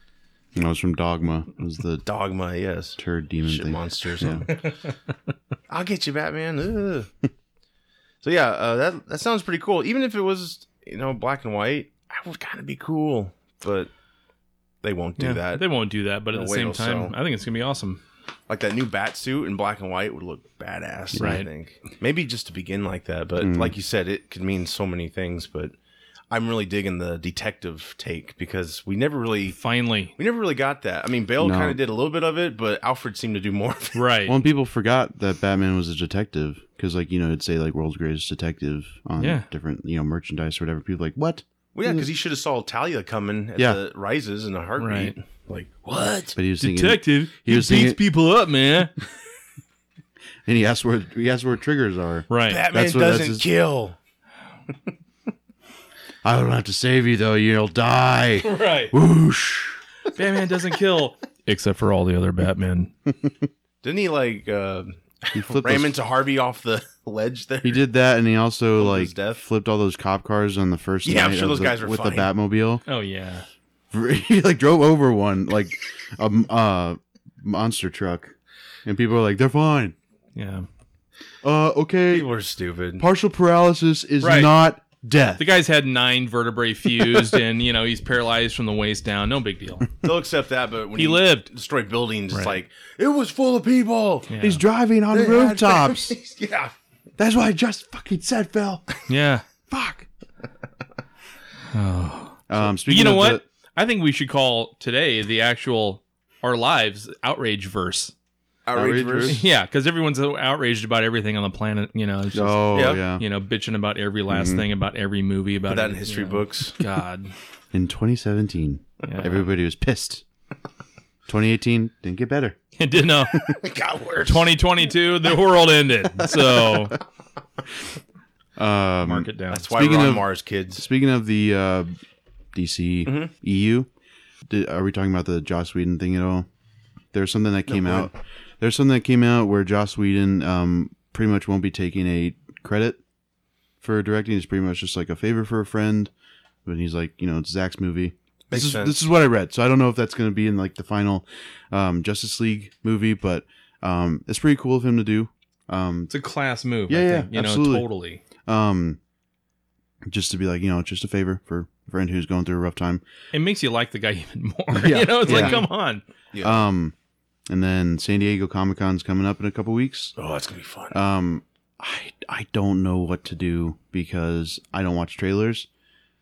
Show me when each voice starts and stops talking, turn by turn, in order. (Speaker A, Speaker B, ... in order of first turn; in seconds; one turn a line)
Speaker A: 0.6-2.1
Speaker B: 2.0-4.7
Speaker A: 3.0-4.5
Speaker B: 5.7-7.1
Speaker B: 8.2-13.9
Speaker B: 14.8-15.7
Speaker C: 15.2-18.0
Speaker B: 16.3-17.1
Speaker B: 18.5-25.8
Speaker A: 21.1-21.4
Speaker C: 21.2-21.5
Speaker A: 23.4-23.7
Speaker B: 26.3-29.6
Speaker C: 29.5-30.1
Speaker B: 30.1-34.0
Speaker A: 31.4-31.8
Speaker C: 34.0-34.4
Speaker A: 34.3-42.1
Speaker C: 39.2-39.5
Speaker B: 41.7-46.4
Speaker C: 44.8-45.1
Speaker A: 46.4-48.0
Speaker C: 46.6-49.0
Speaker A: 50.5-53.5
Speaker C: 52.3-52.7
Speaker B: 52.4-54.0
Speaker A: 56.2-59.8
Speaker C: 58.4-58.9
Speaker C: 60.1-62.9
Speaker B: 63.8-67.9
Speaker A: 65.3-66.0
Speaker A: 67.6-72.8
Speaker B: 68.8-69.5
Speaker B: 71.0-72.3
Speaker C: 72.9-73.5
Speaker A: 73.9-78.3
Speaker A: 78.8-80.0
Speaker C: 80.3-80.7
Speaker A: 81.4-82.3
Speaker B: 82.1-83.0
Speaker A: 83.0-85.5
Speaker C: 84.2-84.5
Speaker C: 85.4-90.0
Speaker B: 90.0-94.3
Speaker C: 91.0-91.5
Speaker C: 94.3-94.6
Speaker A: 94.4-96.2
Speaker B: 95.1-96.8
Speaker A: 97.2-98.9
Speaker C: 99.1-99.5
Speaker A: 99.7-100.1
Speaker C: 101.7-108.1
Speaker A: 102.5-103.4
Speaker B: 108.7-109.4
Speaker A: 108.7-109.4
Speaker C: 109.3-117.3
Speaker A: 112.3-113.2
Speaker B: 112.7-113.0
Speaker A: 114.3-114.6
Speaker B: 115.7-116.8
Speaker A: 117.7-120.2
Speaker C: 119.0-119.5
Speaker A: 121.3-122.6
Speaker C: 122.8-123.6
Speaker B: 123.6-124.5
Speaker C: 124.2-127.0
Speaker A: 128.6-132.0
Speaker C: 129.0-129.7
Speaker B: 129.5-130.8
Speaker A: 132.5-133.9
Speaker B: 133.1-133.3
Speaker A: 134.5-136.5
Speaker A: 137.1-143.0
Speaker B: 137.7-138.1
Speaker A: 143.8-146.1
Speaker A: 146.6-156.1
Speaker B: 148.5-149.0
Speaker C: 156.1-158.2
Speaker A: 156.9-157.9
Speaker A: 158.4-159.0
Speaker A: 160.1-163.0
Speaker C: 163.3-166.0
Speaker A: 164.7-165.7
Speaker B: 165.2-165.7
Speaker B: 166.3-166.7
Speaker A: 166.4-166.9
Speaker A: 167.5-170.1
Speaker B: 170.2-171.0
Speaker A: 170.9-175.7